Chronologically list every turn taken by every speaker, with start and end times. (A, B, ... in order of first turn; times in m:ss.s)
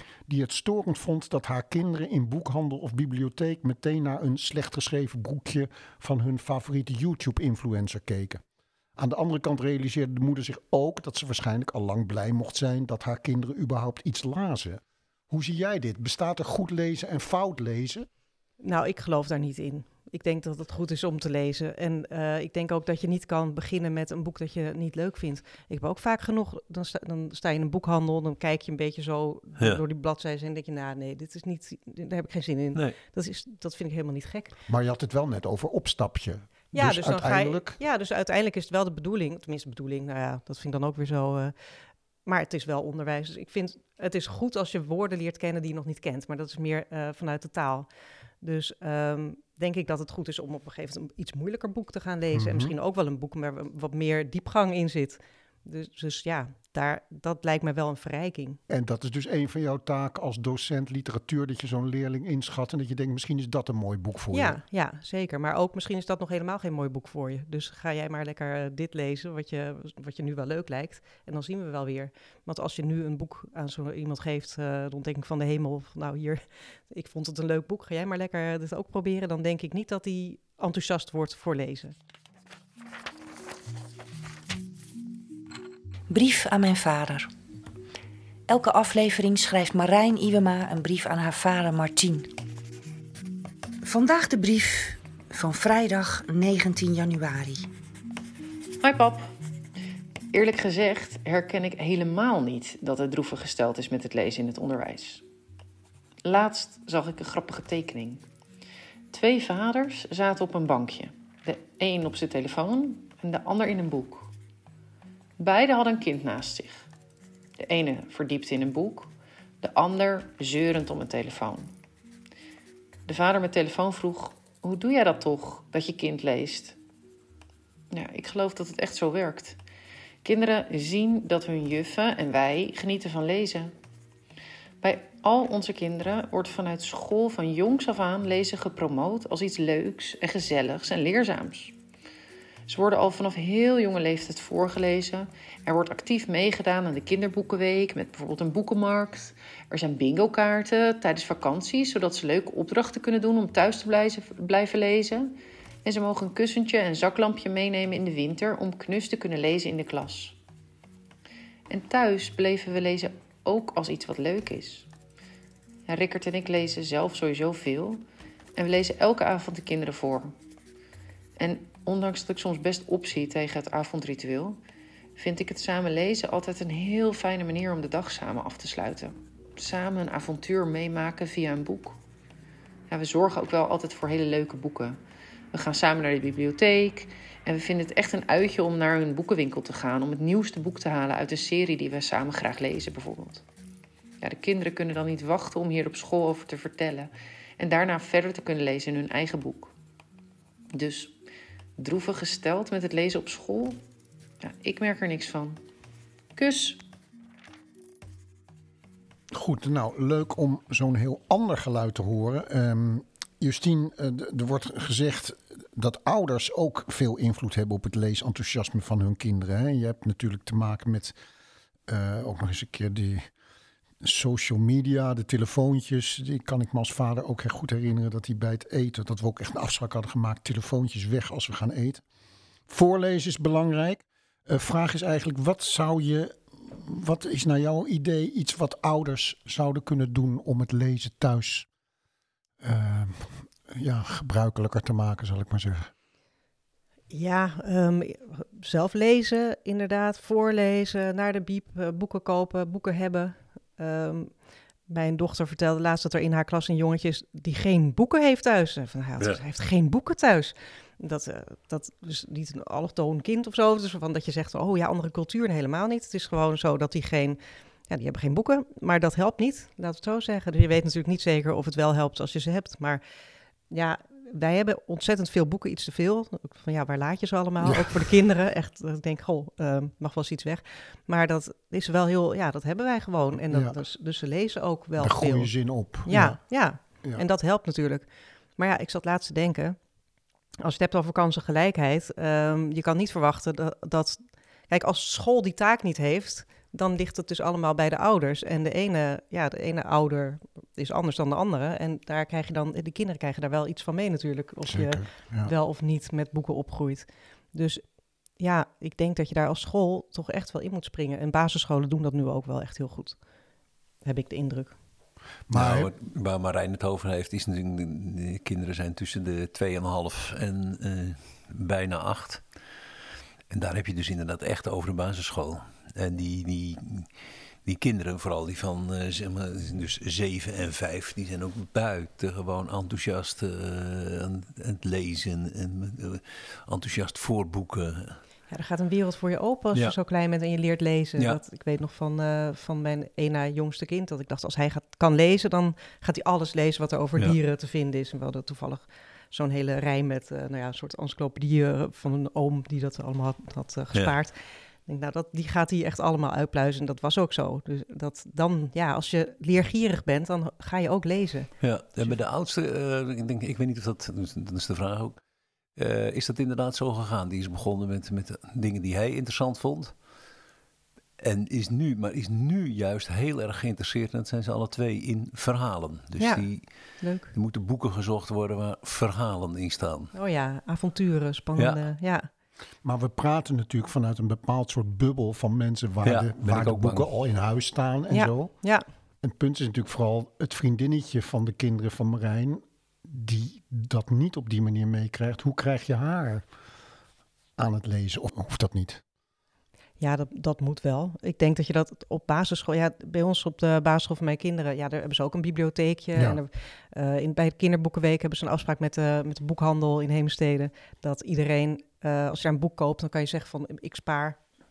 0:00.3-0:08.4 A
0:09.0-0:18.1 A
0:18.6-0:34.5 B
0:34.7-0:37.8 A
0:36.8-0:41.5 B
0:42.3-0:47.9 B
0:48.4-0:58.6 B
0:52.3-0:52.7 A
0:58.7-1:04.6 A
1:04.3-1:22.0 B
1:26.1-1:27.3 C
1:28.5-1:32.3 C
1:33.8-1:37.7 C
1:38.8-1:39.3 D
1:40.3-1:45.2 D
1:46.3-1:48.2 D
1:49.1-1:54.3 D
1:55.4-1:56.9 D
1:57.6-1:59.1 D
1:59.6-2:01.7 D
2:03.1-2:06.8 D
2:07.9-2:09.6 D
2:10.2-2:13.7 D
2:14.8-2:21.8 D
2:22.7-2:35.3 D
2:35.8-2:40.4 D
2:41.7-2:44.9 D
2:45.9-2:48.0 D
2:48.6-2:50.3 D
2:51.4-2:54.6 D
2:55.2-3:02.0 D
3:02.9-3:05.0 D
3:05.5-3:13.4 D
3:14.2-3:19.7 D
3:20.8-3:21.1 D
3:21.8-3:23.8 D
3:24.4-3:25.6 D
3:26.4-3:26.8 D
3:29.3-3:41.2 A
3:41.9-3:43.3 A
3:44.0-3:52.0 A
3:52.7-4:01.7 A
4:02.6-4:05.9 A
4:07.1-4:14.3 B
4:14.9-4:33.0 B
4:33.7-4:45.5 B
4:37.6-4:38.1 A
4:43.5-4:43.8 A
4:45.0-4:46.4 A
4:46.0-4:49.8 B
4:50.6-5:07.8 B
5:04.7-5:05.5 A
5:08.4-5:13.2 B
5:14.0-5:14.8 B
5:15.5-5:15.9 A
5:15.5-5:22.4 E
5:23.5-5:27.1 E
5:27.6-5:38.2 E
5:38.5-6:02.2 B
6:01.6-6:05.2 E
6:05.8-6:09.9 E
6:11.2-6:16.6 E
6:16.2-6:16.4 B
6:17.0-6:17.3 B
6:17.3-6:20.1 E
6:20.1-6:22.3 B
6:21.6-6:21.8 E
6:22.8-6:28.5 A
6:26.0-6:27.1 E
6:28.1-6:28.8 B
6:29.2-6:36.4 A
6:37.6-6:39.0 A
6:40.0-6:54.4 B
6:46.2-6:46.4 A